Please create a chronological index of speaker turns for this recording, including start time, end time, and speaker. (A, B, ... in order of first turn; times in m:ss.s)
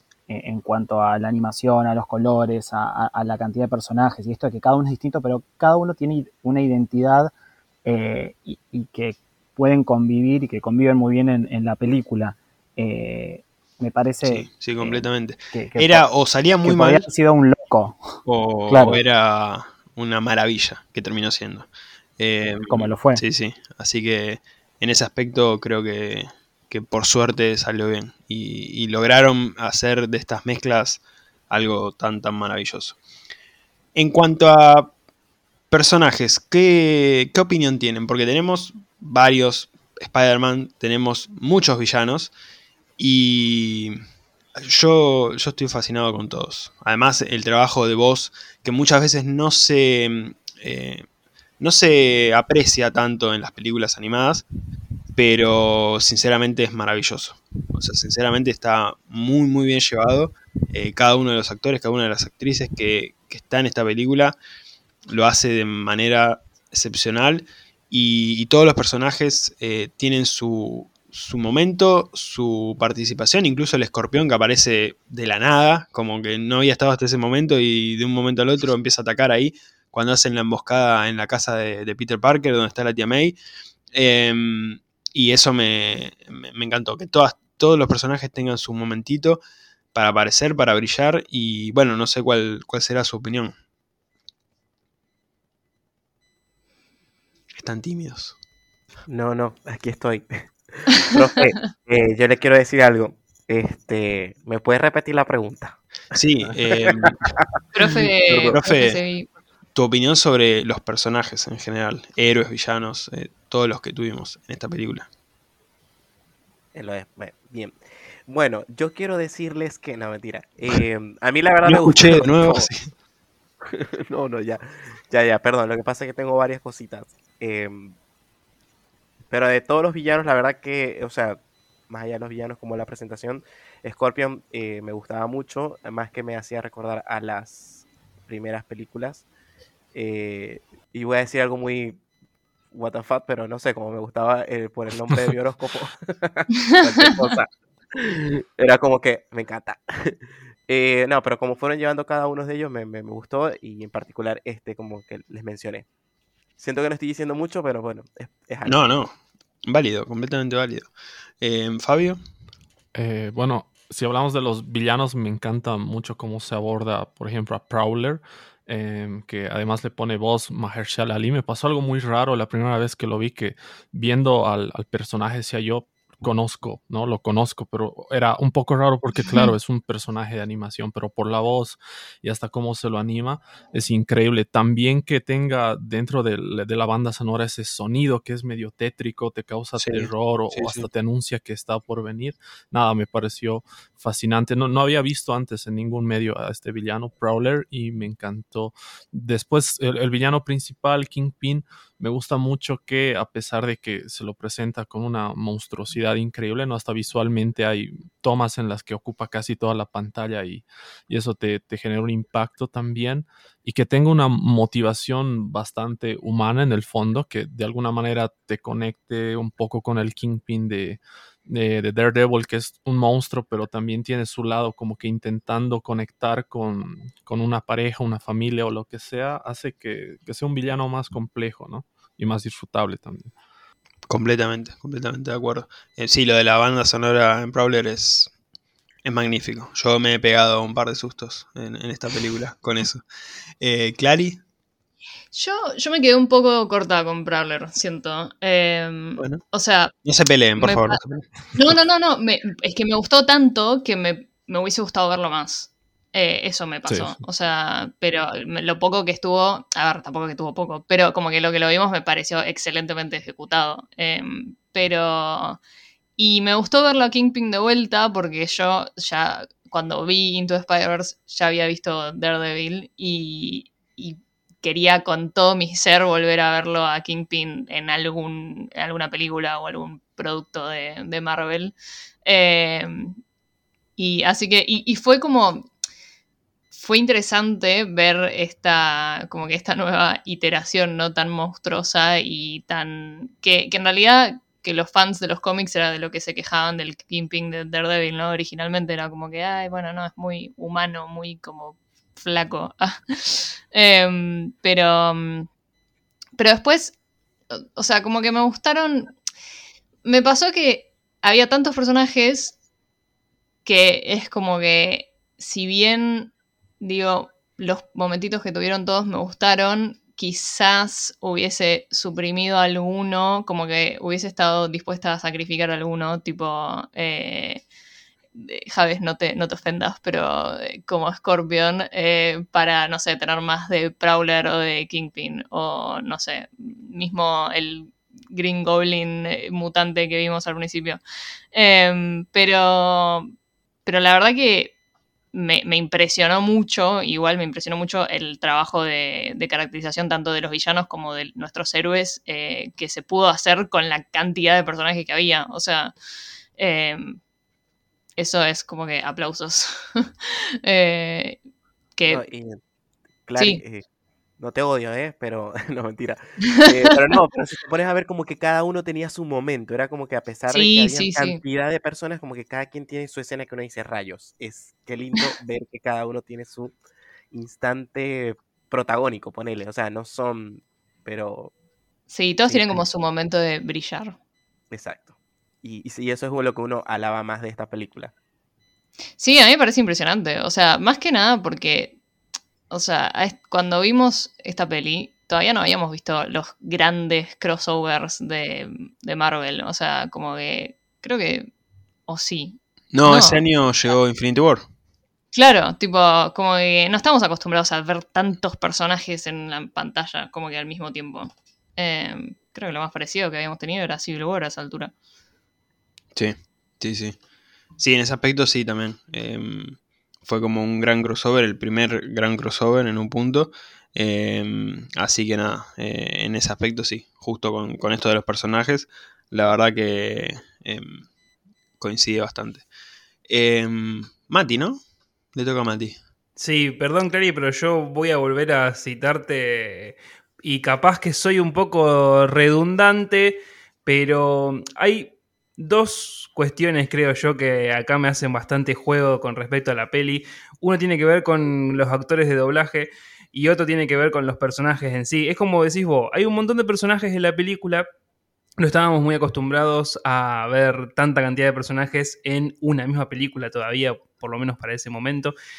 0:00.3-0:07.3 A
0:07.8-0:16.1 A
0:14.2-0:17.0 B
0:16.6-0:19.0 A
0:18.2-0:33.0 B
0:22.7-0:23.2 A
0:33.9-0:34.9 B
0:35.7-0:42.3 B
0:43.0-0:44.0 B
0:44.6-0:51.0 B
0:51.6-0:54.4 B
0:55.1-1:04.3 B
1:05.1-1:23.4 B
1:23.9-1:29.4 B
1:29.9-1:33.5 B
1:37.6-1:38.3 B
1:39.1-1:45.8 C
1:46.1-1:47.3 B
1:46.7-1:47.1 C
1:47.7-1:49.3 D
1:48.3-1:49.0 B
1:49.7-1:55.1 B
1:56.7-2:02.7 C
2:01.6-2:02.9 B
2:03.6-2:07.9 C
2:09.3-2:19.2 C
2:19.9-2:22.0 C
2:22.7-2:35.8 C
2:36.6-2:38.8 C
2:38.6-2:39.1 B
2:39.7-2:42.2 B
2:42.9-3:53.3 E
3:09.8-3:10.8 B
3:54.1-3:58.3 B
3:59.0-4:03.0 B
4:03.6-4:04.4 B
4:05.3-4:09.9 D
4:10.0-4:11.7 B
4:10.6-4:11.0 D
4:11.5-4:25.6 D
4:26.2-4:43.2 D
4:44.0-4:45.7 D
4:46.7-5:05.5 D
5:06.4-5:06.9 D
5:07.5-5:09.1 D
5:10.0-5:12.5 D
5:13.6-5:27.6 D
5:28.3-5:41.0 D
5:41.5-5:43.3 D
5:43.8-5:44.7 D
5:45.3-5:55.9 D
5:56.6-5:57.2 D
5:58.2-6:01.4 D
6:02.0-6:02.2 D
6:02.1-6:02.6 C
6:03.3-6:03.8 C
6:04.4-6:16.7 C
6:10.5-6:11.4 D
6:17.3-6:21.5 C
6:22.1-6:24.2 D
6:22.5-6:22.8 C
6:24.7-6:28.1 C
6:29.2-6:32.0 D
6:32.7-6:41.5 D
6:42.1-6:43.4 D
6:42.9-6:44.6 B
6:45.3-6:54.9 D
6:56.1-6:57.2 B
6:57.8-7:11.0 B
7:11.8-7:12.6 B
7:13.3-7:14.8 B
7:15.3-7:16.0 B
7:16.4-7:37.8 F
7:38.6-7:45.3 F